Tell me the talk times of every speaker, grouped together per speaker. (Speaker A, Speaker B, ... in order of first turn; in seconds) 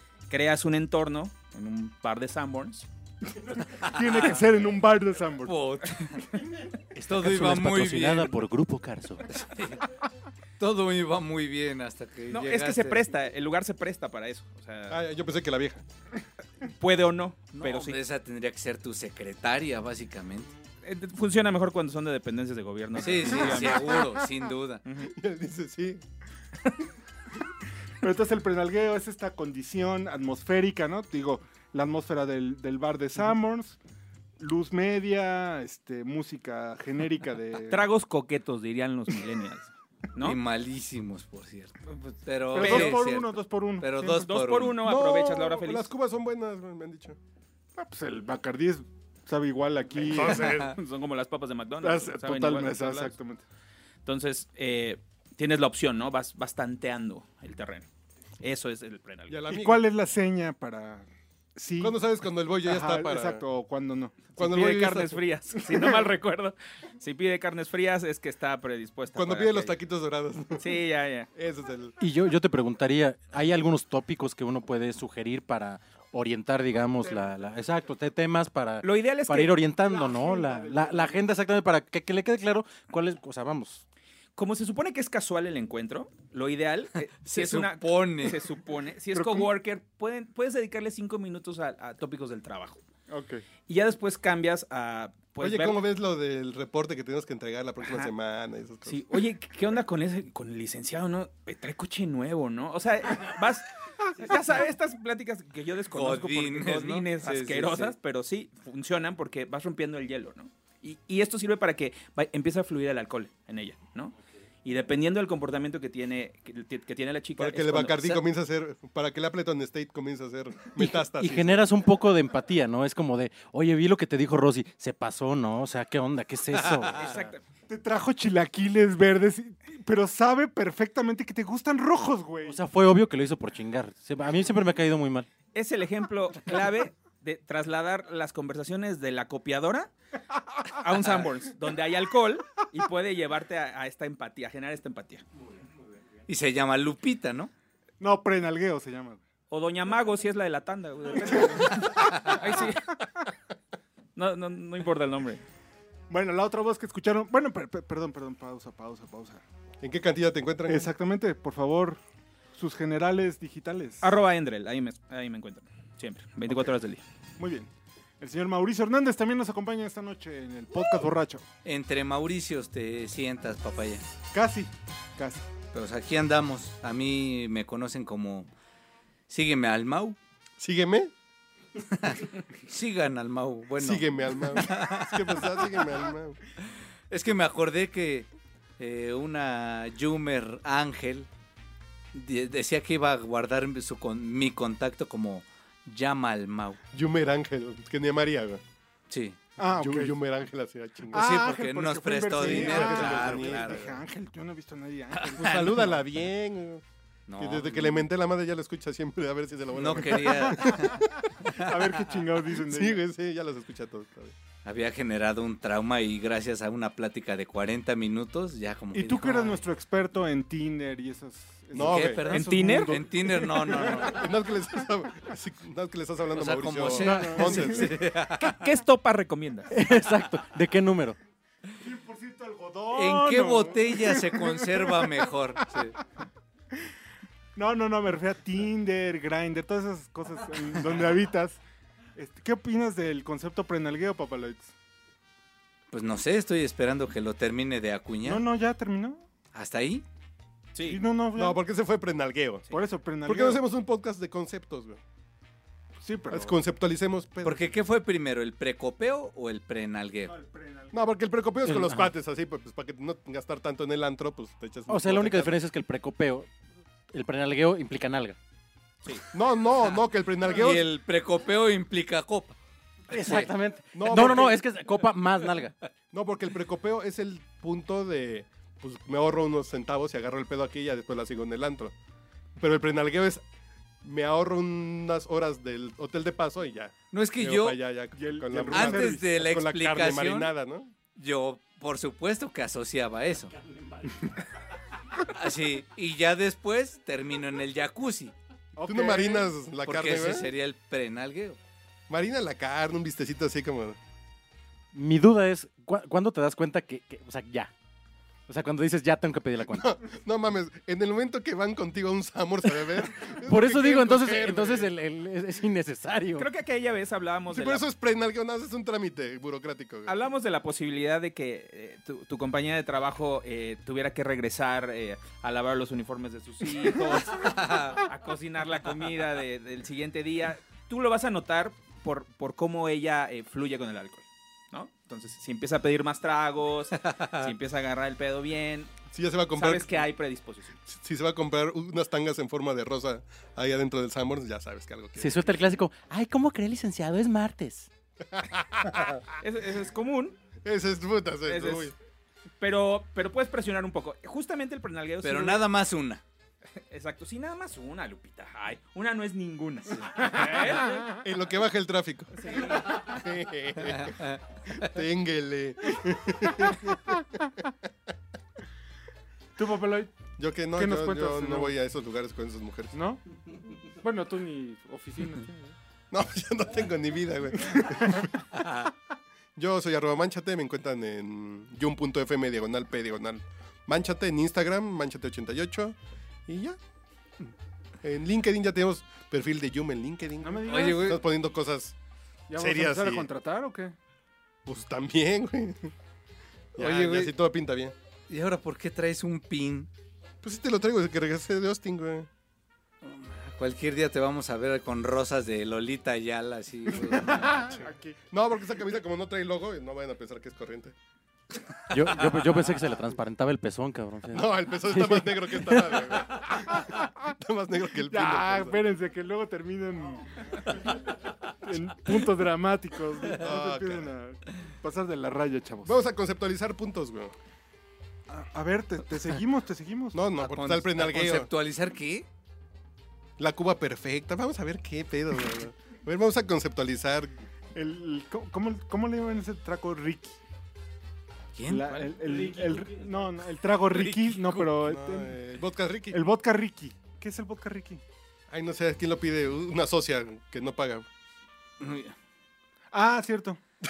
Speaker A: 0.3-2.9, 12.3-15.0, 16.7-18.0, 20.8-24.1, 24.9-25.1, 37.7-40.4, 42.6-43.0, 44.2-45.9, 50.3-53.1, 54.0-57.9, 58.4-59.4, 64.4-69.7, 70.6-71.3, 78.8-79.7, 84.3-92.8, 93.7-95.8, 98.8-118.2, 126.9-127.4, 135.5-139.9, 140.7-145.2, 149.5-153.0, 154.2-155.4, 164.0-167.0, 222.3-223.0, 227.5-229.7, 250.7-251.0, 316.4-317.8, 320.1-339.0, 339.5-340.8, 349.4-350.4, 351.4-351.9, 352.6-355.6, 356.9-361.1, 362.4-363.0
Speaker B: 3.4-5.6, 28.0-33.8, 34.4-37.9, 42.5-44.3, 47.8-50.6, 51.8-53.4, 59.5-62.0, 62.6-64.3, 79.8-81.2, 89.1-89.5, 93.1-93.5, 127.7-132.6, 148.0-149.2, 156.1-159.4, 160.7-162.0, 162.6-164.0, 166.5-166.7, 167.4-171.4, 174.3-175.4, 199.6-200.2, 201.1-206.0, 210.2-213.0, 218.9-224.2, 226.9-227.8, 231.8-235.1, 237.6-241.6, 242.2-244.7, 248.2-249.2, 250.8-251.6, 252.7-253.6, 256.0-256.6, 260.3-261.1, 288.1-289.3, 298.7-299.5, 369.6-370.1, 370.7-371.7, 372.9-373.2, 374.0-375.7, 377.8-378.2, 390.4-391.2, 392.5-393.9, 407.3-408.2, 416.6-417.3, 418.1-421.0, 421.6-426.0, 428.3-430.2, 437.7-440.4, 441.6-445.4, 446.1-448.0, 452.9-453.6
Speaker C: 3.8-4.4, 5.4-6.2, 7.0-8.3, 9.3-9.8, 10.6-13.1, 17.5-20.5, 23.0-24.8, 40.2-44.8, 87.2-88.5, 105.9-107.9, 126.6-127.1, 146.3-147.5, 152.0-152.3, 171.6-174.1, 175.7-178.5, 179.3-180.2, 181.9-185.4, 187.1-191.3, 192.1-196.8, 199.1-199.4, 201.1-203.8, 205.4-205.9, 207.3-208.1, 209.7-211.0, 214.6-219.6, 221.8-224.3, 226.3-228.6, 232.9-236.0, 245.9-248.4, 249.5-250.0, 257.4-260.3, 270.4-272.6, 287.1-287.8, 288.7-290.5, 291.1-293.5, 295.2-298.3, 299.8-301.6, 327.4-328.0, 337.0-337.5, 355.2-356.2, 364.0-364.4, 390.7-391.2, 396.8-397.3, 398.3-399.9, 403.0-407.7, 430.4-432.2, 441.5-442.8, 443.9-444.6, 451.8-452.1
Speaker D: 6.9-9.3, 72.0-83.8, 120.8-127.2, 132.4-135.3, 229.7-231.2, 264.9-266.5, 267.1-268.4, 273.1-275.7, 304.9-307.7, 308.5-309.9, 312.8-316.5, 345.2-347.9, 411.9-416.2
Speaker E: 14.9-15.8, 25.0-26.0, 44.8-47.2, 50.0-50.8, 59.3-59.8, 61.8-63.4, 64.4-65.2, 69.1-70.8, 71.3-72.0, 95.4-99.1, 117.4-121.7, 159.8-160.9, 180.6-181.1, 183.8-186.4, 196.9-198.6, 199.6-201.2, 202.3-204.0, 205.4-206.8, 207.4-211.1, 212.7-214.3, 221.7-222.3, 224.0-227.9, 251.3-252.7, 253.2-255.0, 256.3-257.7, 260.9-265.6, 269.3-270.9, 273.9-274.6, 276.1-281.9, 282.6-283.4, 284.0-290.9, 298.8-300.5, 302.1-304.0, 309.7-314.9, 317.5-320.2, 339.1-340.1, 340.8-345.4, 348.3-349.4, 350.6-351.9, 361.1-367.6, 370.4-372.9, 376.1-378.7, 379.6-386.8, 388.0-391.9, 392.6-393.3, 394.6-395.9, 396.8-397.9, 400.4-402.3, 407.5-410.9, 414.3-418.8, 423.3-424.1, 425.8-427.3, 430.1-431.5, 433.4-437.3, 444.8-446.2, 448.5-451.1